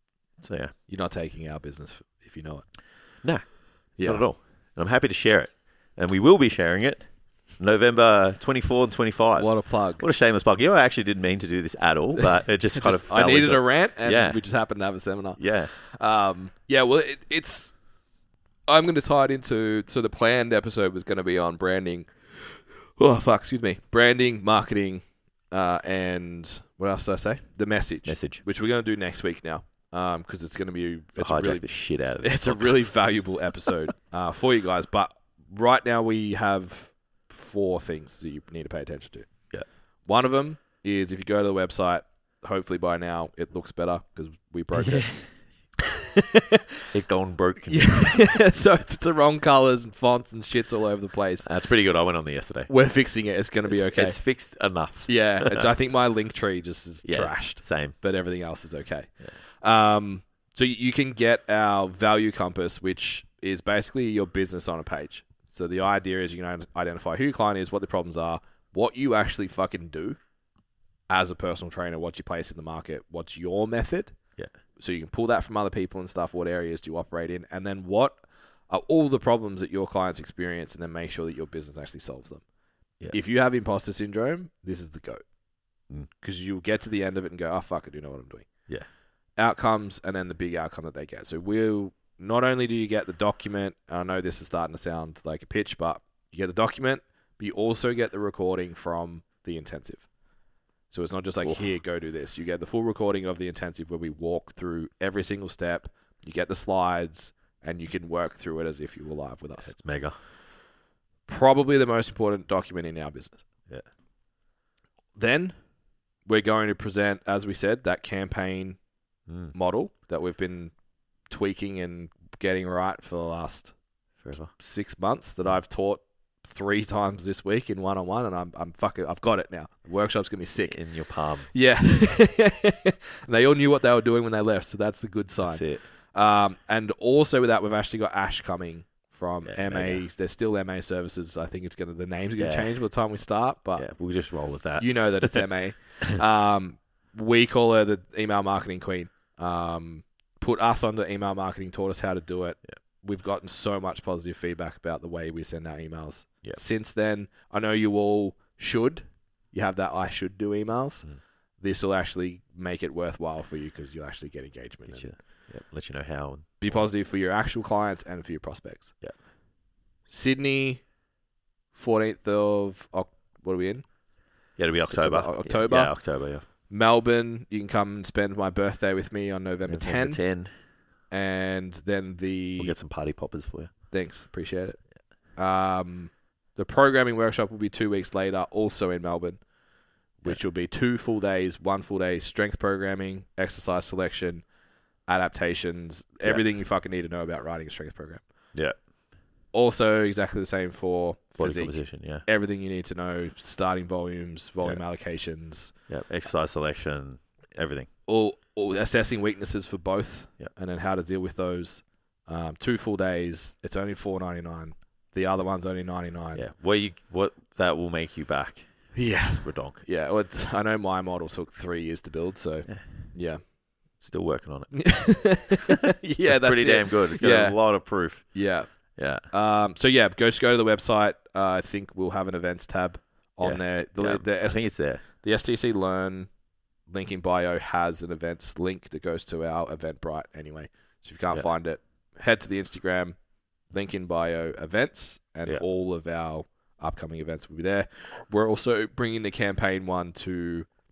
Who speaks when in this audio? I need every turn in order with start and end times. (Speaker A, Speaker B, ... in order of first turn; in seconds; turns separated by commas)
Speaker A: 0.4-0.7, Speaker B: 0.9-2.7, Speaker A: 3.2-7.0, Speaker B: 4.0-4.2, Speaker A: 7.6-14.4, Speaker B: 9.3-10.0, Speaker B: 12.7-17.7, Speaker A: 15.4-15.7, Speaker B: 18.7-31.7, Speaker A: 28.0-28.4, Speaker A: 31.2-32.8, Speaker B: 32.2-39.3, Speaker B: 40.0-45.1, Speaker A: 44.7-45.3, Speaker B: 46.2-46.4, Speaker A: 46.9-48.1, Speaker B: 47.7-51.5, Speaker A: 51.4-52.7, Speaker B: 52.7-54.2, Speaker A: 53.7-55.7, Speaker B: 55.0-70.2, Speaker A: 57.0-57.9, Speaker B: 71.1-74.2, Speaker B: 74.8-82.4, Speaker B: 83.1-85.2, Speaker B: 86.2-88.5, Speaker B: 89.4-100.1, Speaker B: 100.9-109.7, Speaker A: 109.6-110.2, Speaker B: 111.3-113.4, Speaker B: 115.2-115.5, Speaker B: 116.2-118.8, Speaker A: 119.3-119.5, Speaker B: 119.5-120.7, Speaker B: 121.3-123.7, Speaker A: 124.2-124.5, Speaker B: 124.6-130.8, Speaker A: 130.7-131.5, Speaker B: 131.5-143.9, Speaker A: 135.4-135.8, Speaker A: 139.4-140.0, Speaker A: 142.4-142.7, Speaker A: 143.8-145.4, Speaker B: 144.8-165.1, Speaker A: 164.9-166.9, Speaker B: 166.6-168.9, Speaker B: 170.1-170.8, Speaker B: 171.7-173.9, Speaker A: 174.6-176.4, Speaker B: 174.8-175.9, Speaker B: 176.7-180.2, Speaker A: 179.7-180.5, Speaker B: 181.1-182.7, Speaker A: 182.6-183.7, Speaker B: 183.9-184.8, Speaker B: 185.3-189.4, Speaker B: 190.2-194.4, Speaker B: 195.1-198.2, Speaker B: 199.5-205.7, Speaker A: 201.4-202.2, Speaker A: 205.9-207.9, Speaker B: 208.1-216.4, Speaker A: 216.3-219.8, Speaker B: 218.9-223.4, Speaker A: 222.7-223.1, Speaker A: 224.0-225.5, Speaker B: 224.7-228.8, Speaker A: 226.2-228.3, Speaker A: 228.9-229.2, Speaker B: 229.3-236.3, Speaker A: 233.4-235.0, Speaker B: 236.9-250.7